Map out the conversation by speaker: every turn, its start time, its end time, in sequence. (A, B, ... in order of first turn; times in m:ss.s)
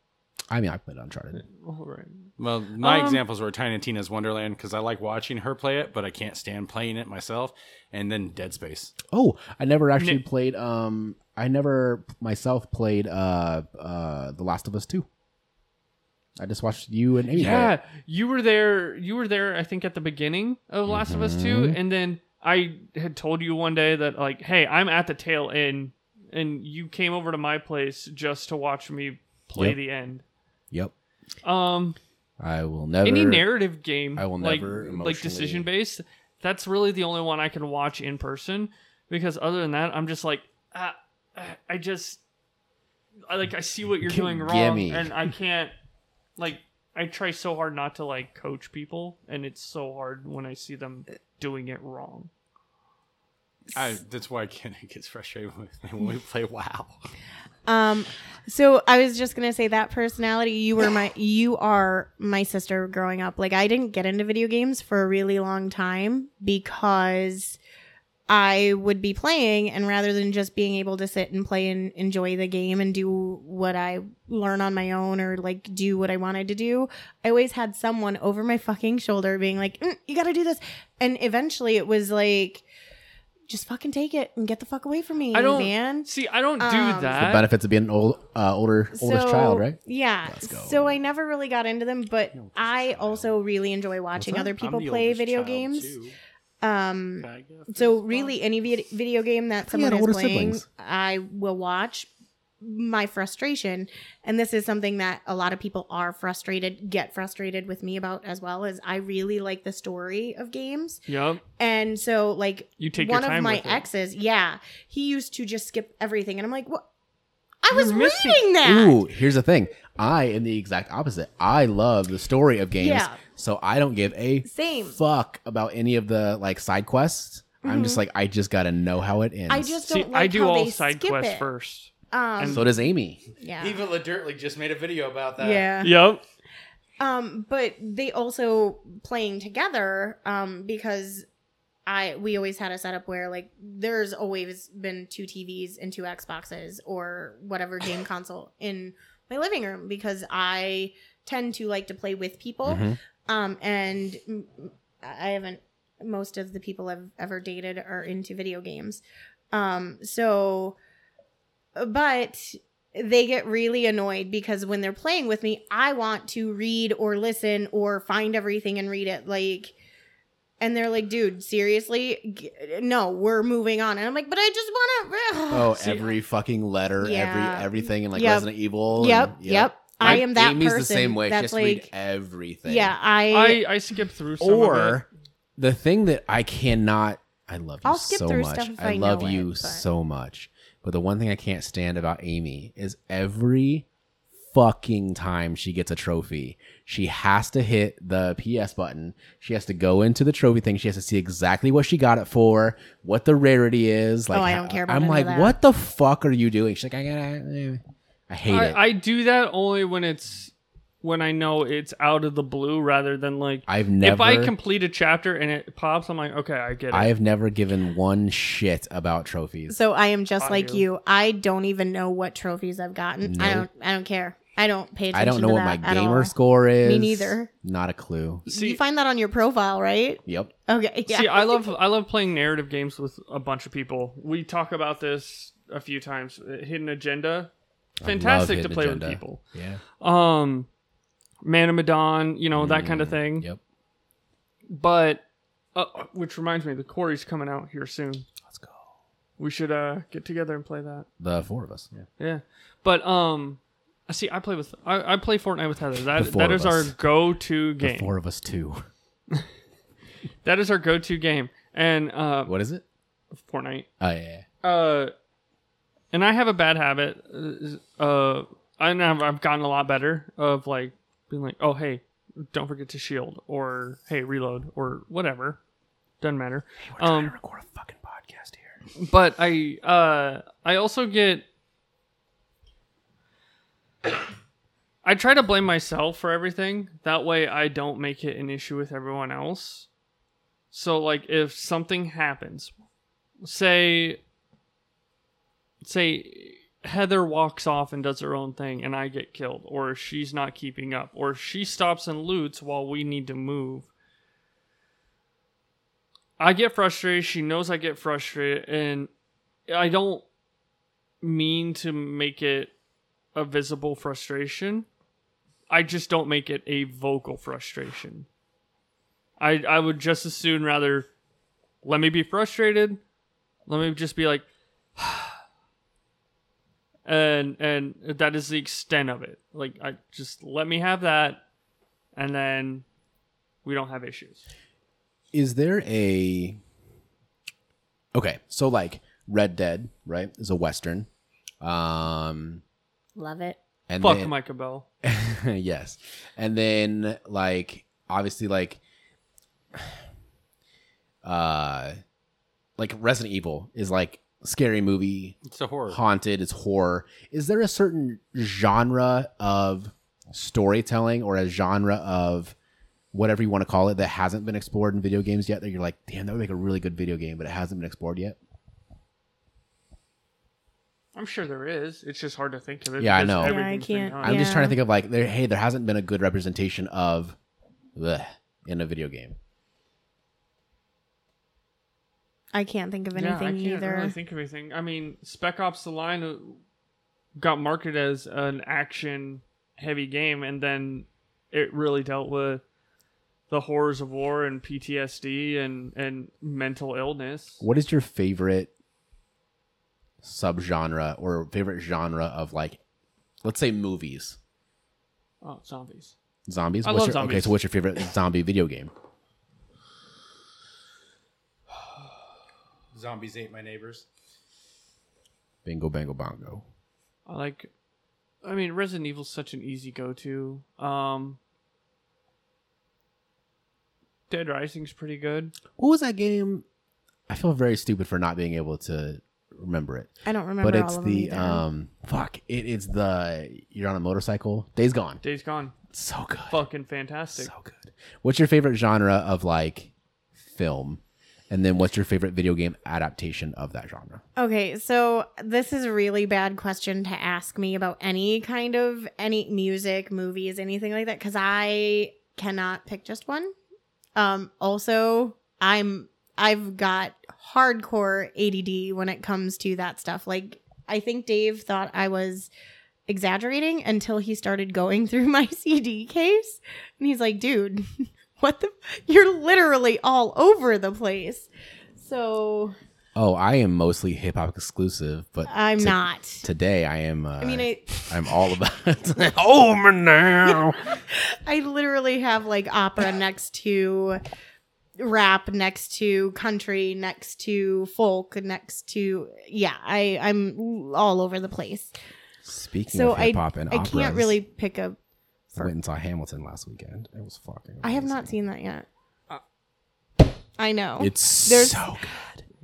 0:00.5-0:01.4 A
0:01.4-0:03.2 B
0:02.4-0:08.9 C
0:09.1-0:15.0 A
0:16.4-0:17.7 A
0:17.3-0:30.2 B
0:20.9-0:21.8 A
0:31.4-0:32.0 B
0:32.4-0:33.5 A
0:33.0-0:42.2 B
0:34.1-0:35.7 A
0:43.3-0:45.7 B
0:44.0-0:45.1 A
0:46.4-0:52.3 B
0:53.7-0:57.0 C
0:57.7-1:07.6 D
1:08.3-1:22.6 D
1:23.5-1:26.1 D
1:25.3-1:27.5 B
1:26.6-1:27.2 D
1:27.2-1:31.0 A
1:28.9-1:36.0 D
1:32.3-1:33.3 C
1:34.2-1:34.5 A
1:34.6-1:36.1 C
1:36.6-1:42.1 D
1:37.2-1:38.3 C
1:39.7-1:40.6 A
1:42.6-1:56.8 D
1:51.1-1:51.4 B
1:52.8-1:53.8 B
1:57.6-1:59.0 D
1:57.7-1:58.4 B
1:58.6-2:09.8 A
2:02.8-2:03.2 D
2:04.4-2:05.0 D
2:07.6-2:08.0 D
2:09.5-2:11.5 D
2:09.8-2:12.7 B
2:12.1-2:12.7 D
2:12.5-2:13.2 A
2:13.4-2:13.8 D
2:13.6-2:15.7 C
2:15.4-2:16.0 D
2:15.8-2:16.2 B
2:17.0-2:21.3 D
2:21.9-2:40.8 D
2:32.6-2:33.0 A
2:41.8-2:49.7 D
2:50.6-2:56.1 D
2:55.5-3:02.9 A
2:57.0-3:01.9 D
3:02.7-3:03.6 D
3:03.3-3:05.0 B
3:04.4-3:05.0 A
3:05.6-3:13.9 A
3:07.8-3:09.8 D
3:14.5-3:28.8 A
3:24.3-3:25.6 D
3:28.5-3:37.1 B
3:33.7-3:34.5 A
3:36.9-3:39.8 A
3:39.7-3:47.5 D
3:40.4-3:40.8 B
3:43.2-3:43.7 A
3:45.1-3:48.5 A
3:48.4-3:51.7 D
3:48.5-3:48.8 B
3:50.3-3:50.5 A
3:51.1-3:57.5 B
3:58.0-3:59.8 A
3:58.0-3:59.4 B
4:00.0-4:00.7 B
4:01.4-4:03.5 B
4:02.6-4:03.6 A
4:04.7-4:05.2 B
4:05.7-4:08.3 B
4:09.4-4:11.1 B
4:11.2-4:11.9 A
4:12.2-4:18.1 B
4:16.1-4:17.0 A
4:17.8-4:18.8 A
4:20.4-4:22.6 B
4:22.4-4:22.8 A
4:23.3-4:23.9 B
4:24.0-4:24.4 A
4:24.6-4:25.1 B
4:26.1-4:35.6 B
4:36.2-4:37.4 B
4:36.8-4:38.8 A
4:39.0-4:41.4 B
4:45.0-4:49.9 B
4:50.7-4:52.7 B
4:53.4-4:54.2 B
4:55.8-5:03.9 B
5:06.4-5:09.1 B
5:09.7-5:10.2 B
5:11.2-5:12.7 B
5:13.3-5:14.9 B
5:15.7-5:18.3 B
5:19.4-5:21.1 B
5:21.8-5:23.0 B
5:23.7-5:24.4 B
5:25.0-5:25.4 B
5:27.0-5:31.4 B
5:32.2-5:32.8 B
5:33.6-5:34.4 B
5:35.3-5:36.6 A
5:38.1-5:41.1 A
5:41.6-5:42.6 A
5:43.1-5:43.6 D
5:43.9-5:44.3 A
5:44.0-5:44.9 B
5:45.0-5:48.8 A
5:51.2-5:52.0 A
5:52.8-5:55.4 A
5:55.4-5:56.0 C
5:55.9-6:02.6 A
6:03.1-6:08.4 A
6:11.1-6:14.5 B
6:13.0-6:13.6 A
6:13.4-6:14.8 D
6:14.2-6:17.4 A
6:18.0-6:19.4 A
6:22.5-6:24.2 D
6:23.1-6:26.6 B
6:27.4-6:32.6 B
6:33.5-6:37.6 B
6:37.6-6:38.7 A
6:40.2-6:42.8 A
6:43.4-6:44.4 A
6:45.4-6:46.1 B
6:46.5-6:48.9 A
6:46.8-6:47.6 B
6:52.9-6:54.0 C
6:55.6-6:56.6 A
6:57.3-6:57.7 B
6:58.4-7:01.4 B
7:04.3-7:05.5 B
7:05.8-7:06.6 A
7:07.3-7:10.1 A
7:10.2-7:11.6 D
7:10.6-7:15.2 A
7:15.2-7:15.7 B
7:15.9-7:16.6 A
7:16.5-7:17.5 B
7:17.4-7:24.2 A
7:24.4-7:33.5 D
7:34.2-7:42.5 D
7:43.1-7:52.7 D
7:53.1-8:00.9 A
7:55.5-7:56.4 D
7:57.4-7:58.1 D
8:00.4-8:04.2 D
8:05.0-8:11.9 D
8:12.4-8:14.4 A
8:12.9-8:15.0 D
8:15.6-8:18.3 A
8:17.8-8:18.9 D
8:20.6-8:21.9 D
8:21.0-8:22.4 A